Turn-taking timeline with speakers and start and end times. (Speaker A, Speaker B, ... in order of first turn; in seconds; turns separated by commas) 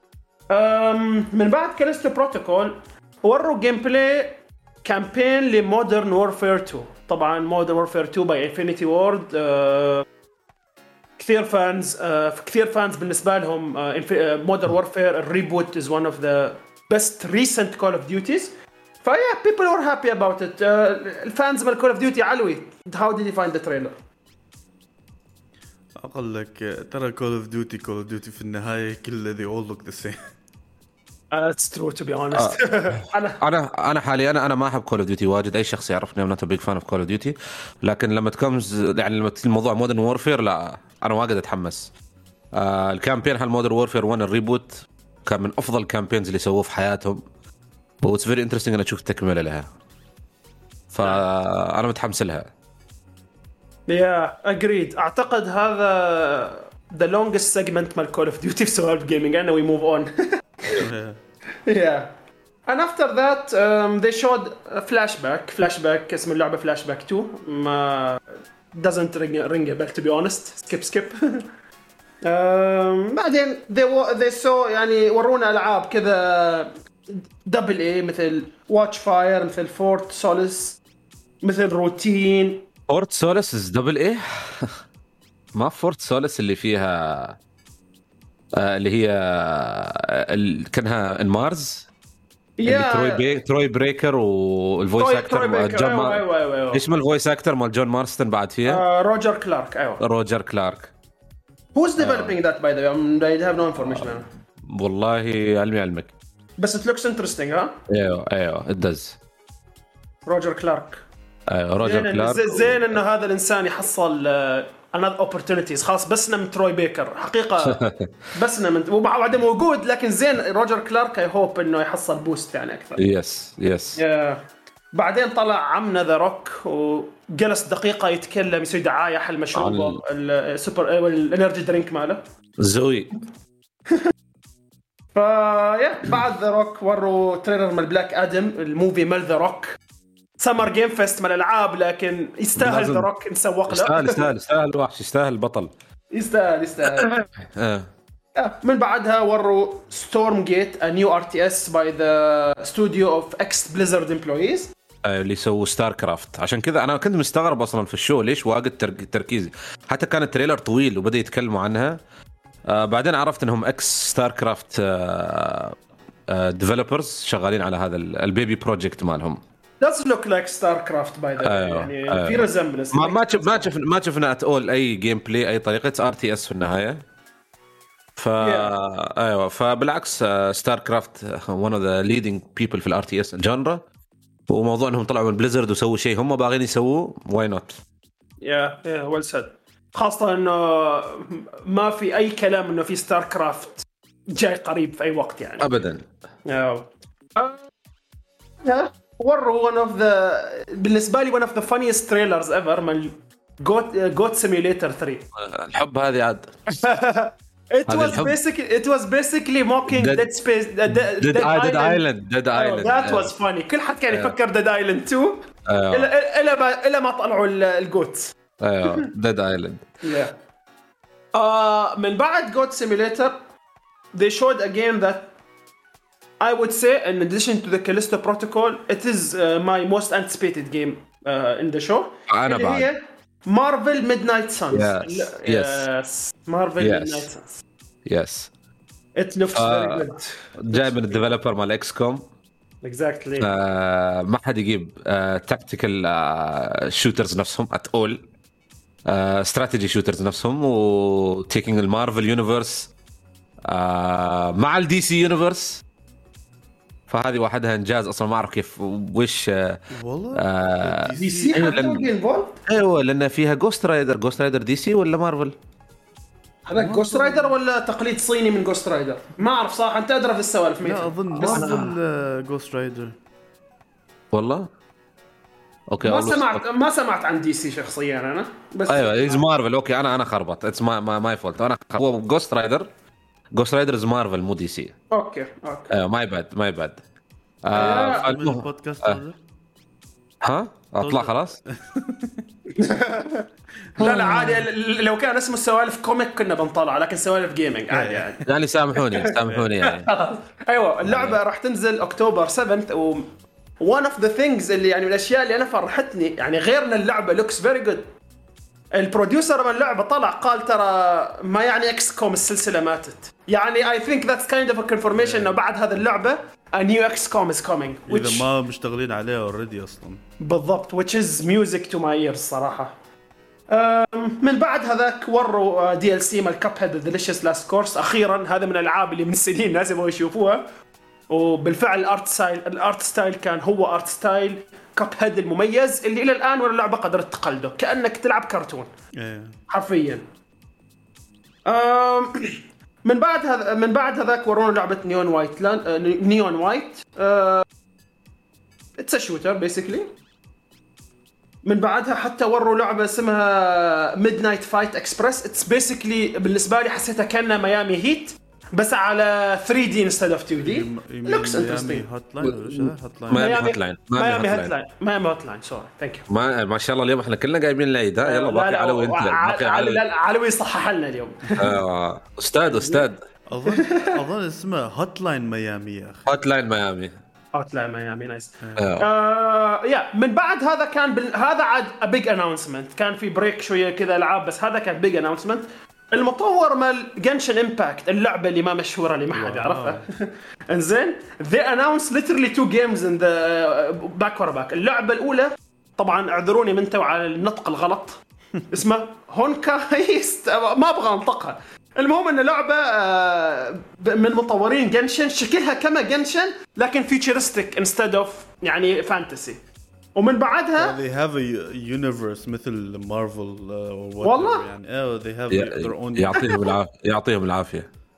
Speaker A: 0.5-10.1, Speaker A: 11.2-18.5, Speaker A: 19.0-24.0, Speaker B: 26.0-30.2, Speaker A: 31.3-33.4, Speaker C: 32.4-41.9, Speaker C: 42.5-47.2, Speaker C: 48.0-49.7, Speaker C: 50.9-52.5, Speaker A: 53.9-60.8, Speaker B: 60.8-61.2, Speaker A: 61.7-62.1, Speaker A: 62.7-71.2, Speaker A: 72.2-80.8, Speaker A: 81.4-82.7, Speaker C: 82.9-84.8, Speaker C: 85.5-87.4, Speaker C: 88.5-91.9, Speaker A: 92.6-93.3, Speaker C: 92.7-98.8, Speaker A: 95.0-96.8, Speaker A: 98.7-100.0, Speaker C: 100.0-100.9, Speaker A: 101.8-104.3, Speaker C: 102.0-102.3, Speaker C: 103.9-106.1, Speaker A: 106.6-107.8, Speaker C: 107.9-109.2, Speaker A: 110.3-111.0, Speaker C: 111.5-113.0, Speaker A: 111.8-117.8, Speaker C: 117.6-118.1, Speaker A: 118.3-123.0, Speaker C: 123.0-124.0, Speaker A: 124.0-132.2, Speaker C: 129.6-130.0, Speaker C: 132.6-133.1, Speaker A: 135.2-139.8, Speaker A: 140.4-144.3, Speaker C: 142.6-143.1, Speaker C: 143.7-145.7, Speaker A: 146.1-147.2, Speaker C: 147.0-147.9, Speaker A: 148.4-154.7, Speaker C: 155.0-162.0, Speaker C: 162.7-165.8, Speaker C: 166.3-169.4, Speaker A: 169.8-173.7, Speaker C: 171.4-177.0, Speaker C: 178.2-183.8, Speaker A: 178.4-178.7, Speaker C: 184.5-187.8, Speaker A: 188.4-195.7, Speaker C: 195.6-196.1, Speaker A: 196.5-197.6, Speaker A: 198.6-205.3, Speaker C: 205.4-206.7, Speaker A: 206.7-212.0, Speaker C: 207.9-208.3, Speaker C: 209.9-210.3, Speaker C: 210.9-213.3, Speaker A: 212.5-219.1, Speaker C: 214.1-214.3, Speaker C: 215.7-216.1, Speaker C: 218.6-219.9, Speaker A: 220.0-220.3, Speaker A: 221.3-223.4, Speaker A: 224.1-225.3, Speaker A: 226.4-237.6, Speaker C: 232.3-232.9, Speaker C: 234.7-235.9, Speaker C: 236.8-237.3, Speaker C: 238.1-238.5, Speaker A: 239.2-241.2, Speaker C: 239.5-240.1, Speaker C: 240.6-242.2, Speaker A: 242.8-243.5, Speaker C: 243.4-248.2, Speaker C: 249.1-252.9, Speaker C: 253.7-255.8, Speaker C: 257.1-259.8, Speaker B: 259.9-261.8, Speaker C: 260.4-262.1, Speaker A: 261.2-262.6, Speaker C: 262.7-265.6, Speaker A: 266.7-271.9, Speaker B: 266.8-267.6, Speaker B: 270.8-273.2, Speaker C: 271.4-271.9, Speaker C: 274.3-274.7, Speaker C: 275.9-276.6, Speaker A: 276.0-279.4, Speaker C: 278.9-282.9, Speaker C: 283.5-284.9, Speaker A: 285.1-285.9, Speaker C: 285.9-287.0, Speaker C: 287.6-289.2, Speaker A: 287.7-288.3, Speaker B: 287.8-289.4, Speaker C: 290.4-291.6, Speaker B: 291.0-292.4, Speaker A: 292.8-293.5, Speaker A: 294.0-298.4, Speaker B: 294.0-294.6, Speaker C: 294.0-294.4, Speaker B: 297.9-298.4, Speaker C: 298.5-300.1, Speaker A: 299.8-303.2, Speaker C: 301.0-301.4, Speaker A: 303.8-308.1, Speaker A: 308.9-318.5, Speaker B: 315.2-315.6, Speaker B: 318.1-320.2, Speaker A: 320.4-322.9, Speaker A: 323.7-330.6, Speaker A: 331.3-338.9, Speaker B: 339.2-339.6, Speaker A: 339.7-340.2, Speaker A: 341.7-347.7, Speaker A: 349.0-350.1, Speaker A: 351.6-362.1, Speaker B: 360.6-363.6, Speaker C: 362.4-364.7, Speaker A: 363.3-366.3, Speaker C: 366.3-370.0, Speaker A: 368.2-371.7, Speaker C: 371.6-373.2, Speaker A: 372.7-373.1, Speaker B: 373.5-376.3, Speaker A: 373.7-374.2, Speaker C: 376.3-377.1, Speaker A: 377.5-398.2, Speaker B: 378.6-378.9, Speaker C: 378.8-379.1, Speaker B: 389.3-390.0, Speaker A: 398.7-409.6, Speaker A: 410.2-411.0, Speaker B: 410.8-416.5, Speaker A: 414.2-414.7, Speaker C: 415.5-417.9, Speaker A: 416.4-416.7